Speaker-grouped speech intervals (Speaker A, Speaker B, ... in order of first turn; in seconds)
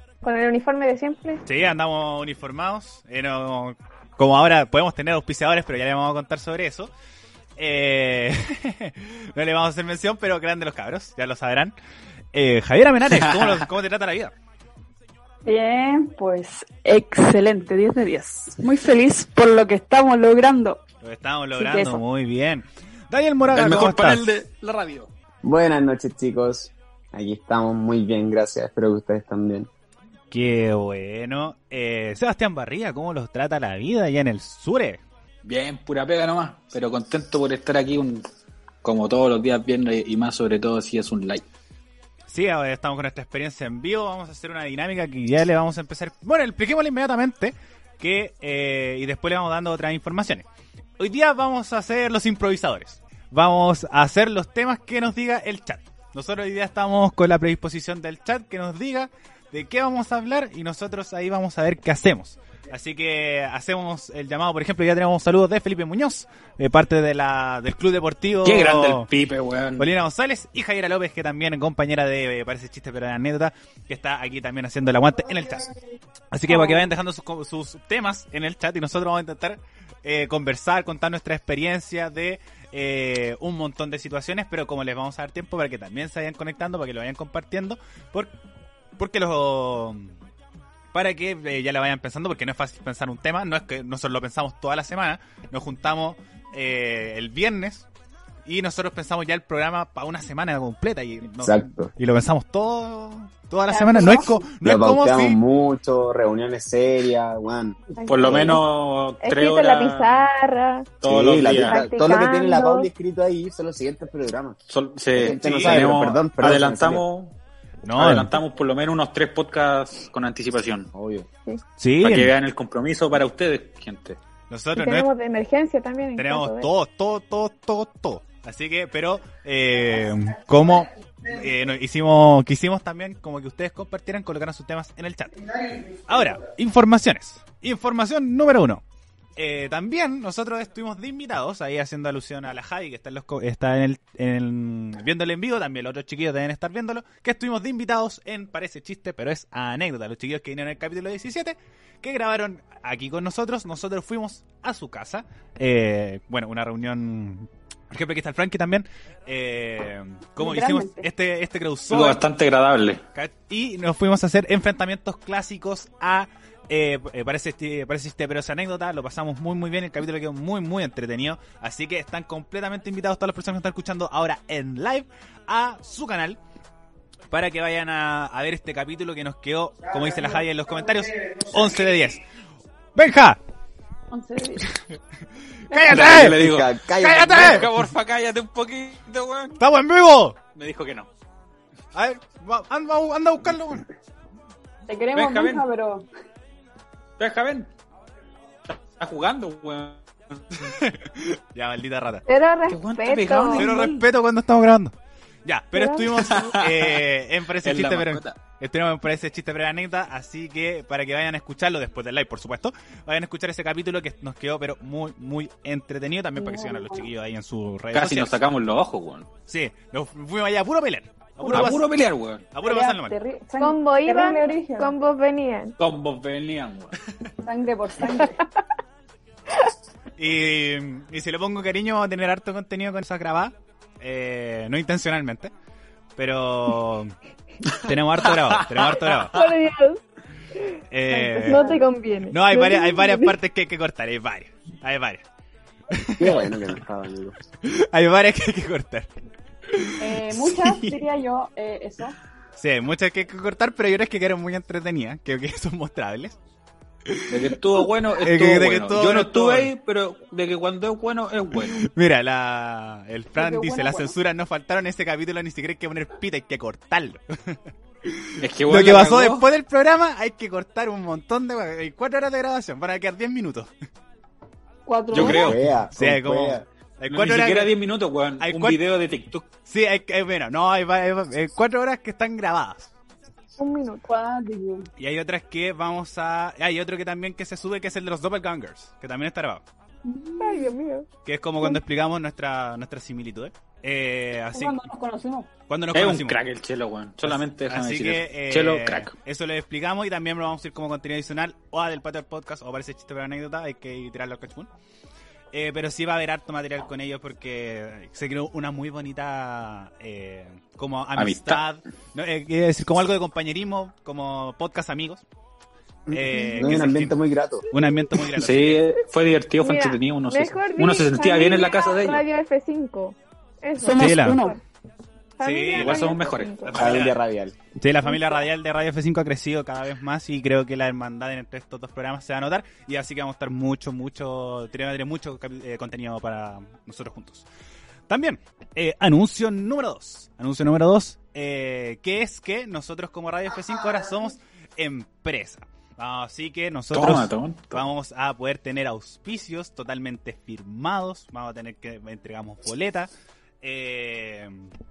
Speaker A: 0.2-1.4, 76.5-76.8, 108.0-108.6, 109.2-110.9, 111.5-112.9, 124.8-126.7, 202.3-203.7, 205.7-206.3, 223.6-225.7, 239.3-240.0, 240.6-243.4, 283.6-284.1, 290.4-291.1, 316.3-316.6, 319.6-324.6, 325.4-326.7
Speaker B: 1.4-6.9, 7.6-11.7, 12.3-14.3, 21.0-24.3, 30.3-35.0, 42.3-50.5, 51.0-69.1, 69.8-75.7, 76.3-88.3, 89.0-90.1, 90.9-97.9, 98.4-105.4, 115.2-115.9, 117.8-118.3, 121.8-122.3, 124.5-125.1, 126.2-138.8, 139.3-162.2, 163.1-176.4, 177.3-182.2, 182.9-183.4, 185.7-187.7, 189.6-190.4, 191.9-193.8, 200.6-202.2, 203.6-218.4, 219.5-221.9, 222.5-223.2, 230.2-235.5, 236.2-237.1, 237.8-239.4, 240.9-241.6, 242.3-245.2, 245.9-246.5, 247.6-249.1, 249.7-250.2, 252.6-256.4, 257.1-257.6, 258.2-259.7, 261.7-273.7, 275.9-277.7, 278.4-278.8, 279.6-282.9, 285.0-289.6, 291.2-294.8, 295.7-296.4, 297.2-304.7, 305.5-315.2, 316.1-317.2, 317.7-318.9, 323.9-324.5, 325.4-327.2, 327.8-337.4, 338.1-353.1, 353.6-354.7
Speaker C: 13.2-13.5, 23.5-25.1, 35.4-38.2, 38.8-41.5, 68.4-69.9, 108.0-110.2, 111.0-111.8, 114.7-117.3, 117.9-120.9, 122.0-124.2, 161.9-163.0, 185.9-189.6, 190.5-191.1, 195.1-195.6, 197.2-197.7, 198.7-200.4, 202.7-204.0, 206.3-207.0, 207.6-208.4, 217.9-219.3, 221.4-222.5, 225.8-226.9, 237.7-239.2, 257.3-261.9, 268.4-269.5, 275.1-275.6, 277.1-279.5, 295.9-299.1, 311.1-311.6, 318.4-322.2, 325.7-327.0, 346.9-347.8
Speaker D: 15.4-20.8, 21.6-22.0, 103.7-104.5, 160.4-161.1, 184.1-184.6, 185.7-186.1, 194.9-196.1, 216.3-217.1, 221.4-221.7, 222.6-224.9, 227.4-228.4, 241.4-241.8, 250.0-252.2, 263.3-264.1, 274.9-275.6, 284.1-284.9, 290.0-290.7, 294.5-295.5, 323.8-324.5
Speaker E: 25.4-29.7, 101.4-101.9, 104.6-108.6, 111.0-114.6, 115.2-117.0, 120.9-121.3, 186.0-187.7, 246.2-247.3, 275.1-276.6, 316.1-317.6, 326.7-327.6